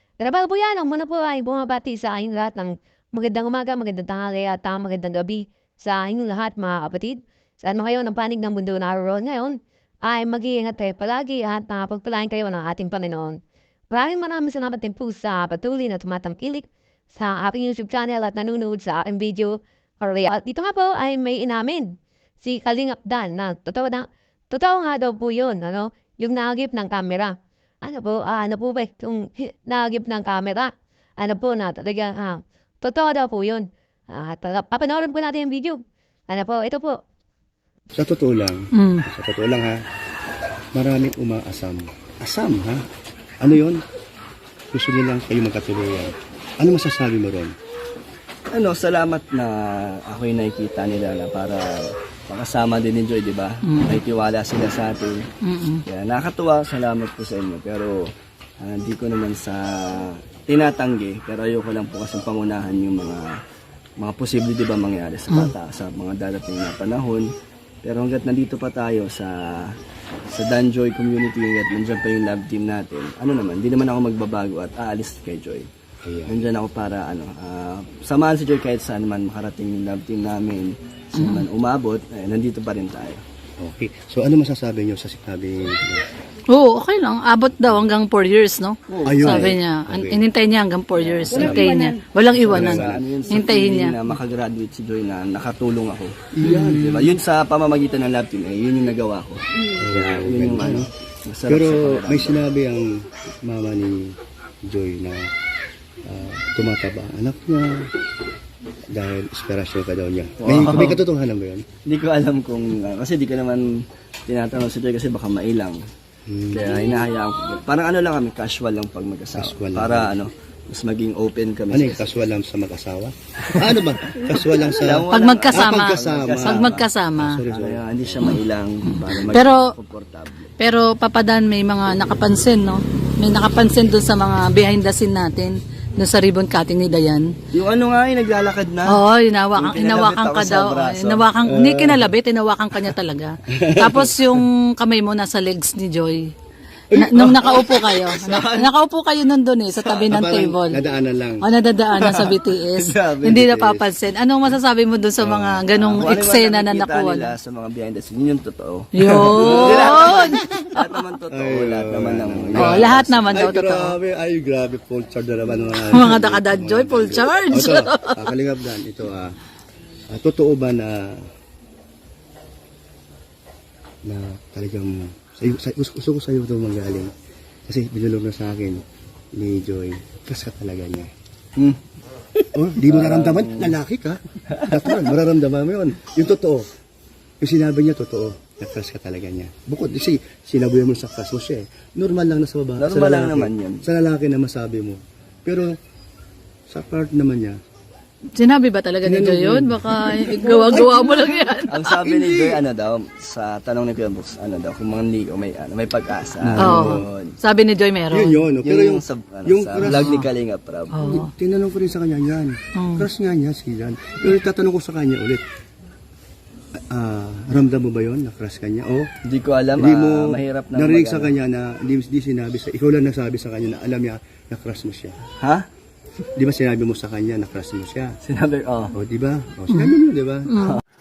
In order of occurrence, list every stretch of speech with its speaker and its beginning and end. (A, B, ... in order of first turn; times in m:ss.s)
0:00.2-0:13.4 A
0:13.9-0:37.0 A
0:38.0-0:39.8 B
0:38.8-0:39.0 C
0:40.7-0:42.8 B
0:43.4-0:43.8 B
0:44.7-0:47.5 B
0:48.5-0:55.2 D
0:53.6-0:54.0 C
0:55.4-0:55.8 C
0:55.9-0:58.1 D
0:58.6-1:03.4 D
1:04.0-1:07.3 D
1:07.8-1:09.7 D
1:10.3-1:15.7 D
1:16.0-1:16.4 B
1:16.3-1:23.2 D
1:21.1-1:21.4 C
1:23.6-1:26.1 B
1:26.5-1:34.0 C
1:28.9-1:29.6 D
1:29.0-1:30.2 B
1:31.0-1:42.4 D
1:31.3-1:33.1 B
1:36.3-1:37.2 B
1:39.8-1:40.9 B
1:41.4-1:45.3 B
1:46.0-1:47.9 B
1:48.9-1:51.7 B
1:50.4-1:51.0 D
1:51.9-1:53.7 D
1:54.3-1:55.8 D
1:56.3-1:57.0 B
1:56.5-2:02.1 D
1:59.3-2:00.1 B
2:01.7-2:08.4 B
2:04.7-2:06.8 D
2:05.1-2:07.4 C
2:07.4-2:10.5 D
2:08.9-2:09.7 C
2:10.6-2:17.3 C
2:17.5-2:19.0 D
2:18.9-2:26.3 C
2:19.6-2:21.3 D
2:21.4-2:22.1 B
2:23.5-2:24.4 B
2:26.9-2:30.8 C
2:26.9-2:27.4 B
2:27.2-2:28.7 D
2:29.9-2:31.4 B
2:31.4-2:37.3 C
2:32.0-2:33.8 D
2:35.2-2:36.2 B
2:35.8-2:43.5 D
2:38.9-2:40.4 C
2:39.0-2:40.7 B
2:41.3-2:49.4 B
2:42.6-2:44.0 C
2:45.8-2:48.3 C
2:50.1-2:51.2 B
2:54.0-2:57.1 B
2:57.7-2:58.8 B
2:59.3-3:01.1 B
3:02.5-3:06.7 B
3:02.8-3:03.8 D
3:04.5-3:05.1 D
3:07.4-3:15.8 B
3:12.8-3:13.8 D
3:16.7-3:17.6 B
3:18.3-3:21.9 C
3:19.0-3:22.6 B
3:21.7-3:27.4 D
3:26.4-3:27.0 B
3:26.6-3:28.4 C
3:28.1-3:30.2 B
3:28.6-3:31.1 D
3:29.9-3:30.3 C
3:30.9-3:31.3 C
3:31.0-3:35.4 B
3:32.8-3:33.1 C
3:36.9-3:39.1 B
3:39.3-3:41.3 D
3:39.8-3:45.2 B
3:45.4-3:45.7 D
3:46.3-3:48.2 B
3:48.2-3:49.0 D
3:48.9-3:50.6 B
3:50.5-3:50.8 C